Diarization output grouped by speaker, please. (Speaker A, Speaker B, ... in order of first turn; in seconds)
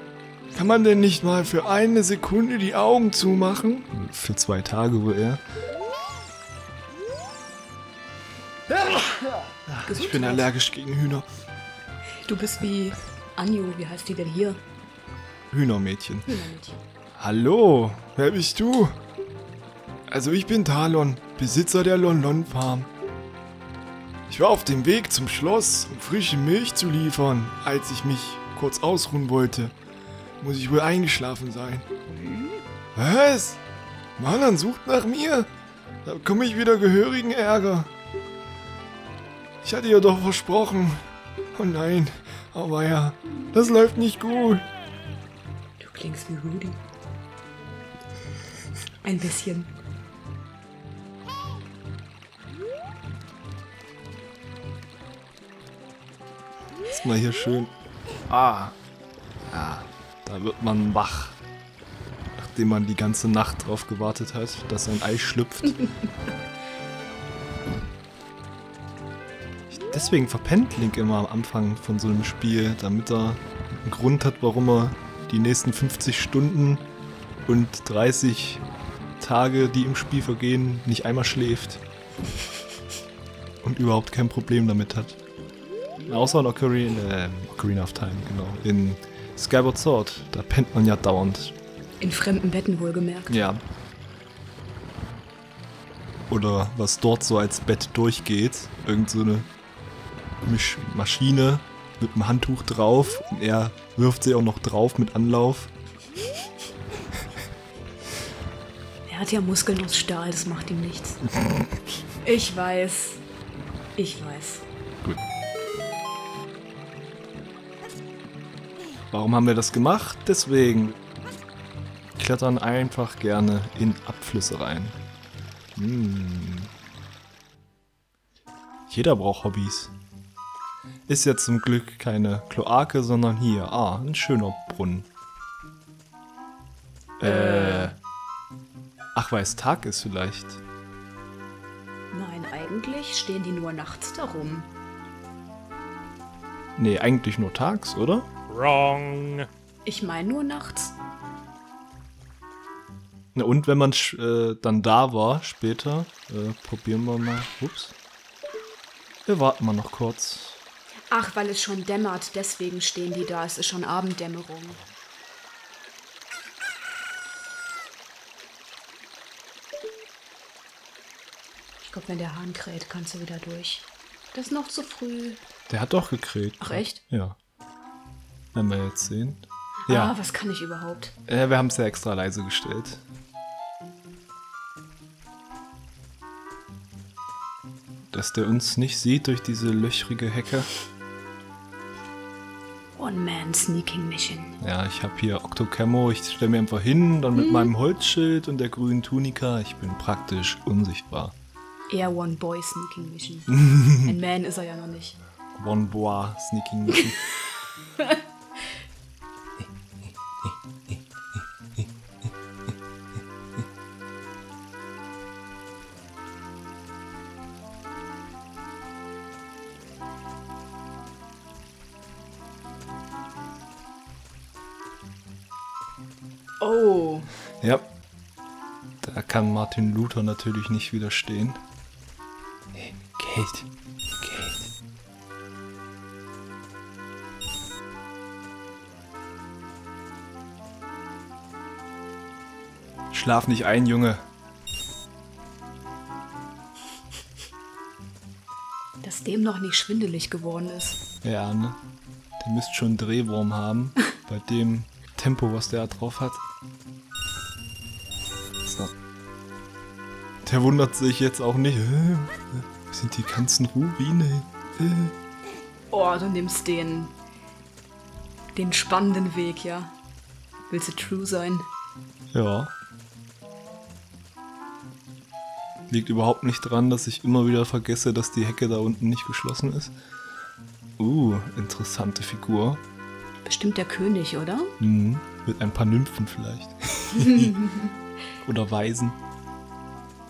Speaker A: 0.5-5.4, 8.7-11.3, 15.5-16.3, 17.1-18.9, 20.1-22.9, 24.3-29.7, 30.4-31.9, 32.9-33.6, 34.2-35.5, 36.0-37.9, 39.6-44.6, 56.9-57.7, 58.3-58.8, 59.5-61.4, 62.4-65.9, 69.7-76.8, 77.5-78.6, 79.2-81.8, 83.6-85.2, 86.0-91.5, 93.3-93.6, 96.3-99.5, 100.4-105.7, 111.4-111.7, 119.1-121.0, 122.2-125.0, 125.8-126.7, 128.9-129.9, 131.1-135.1, 137.2-137.9, 139.1-140.6, 146.8-149.5, 153.3-157.9, 159.2-160.6, 175.7-177.4, 178.5-180.1, 181.3-183.0, 188.1-190.7, 194.6-201.3, 203.7-204.0, 205.5-207.3, 227.6-227.9, 229.0-231.6, 232.7-233.7, 234.2-234.7, 243.1-244.2, 251.2-251.8, 252.4-256.4, 258.6-258.9, 260.4-265.1, 272.3-272.7, 275.9-279.9, 281.0-282.8, 284.8-287.7, 288.4-289.2
Speaker B: 9.8-10.5, 12.2-14.6, 16.3-16.8, 45.8-46.8, 49.0-49.7, 92.0-93.4, 109.1-111.2, 112.2-113.2, 114.0-114.6, 137.2-137.9, 142.1-144.7, 149.8-151.0, 161.1-164.8, 171.8-175.4, 176.6-177.0, 179.8-181.1, 192.9-194.6, 197.4-197.7, 201.9-205.2, 226.6-227.3, 249.0-251.0, 265.9-267.1, 268.5-269.9, 270.7-271.7, 283.4-284.7, 287.1-287.9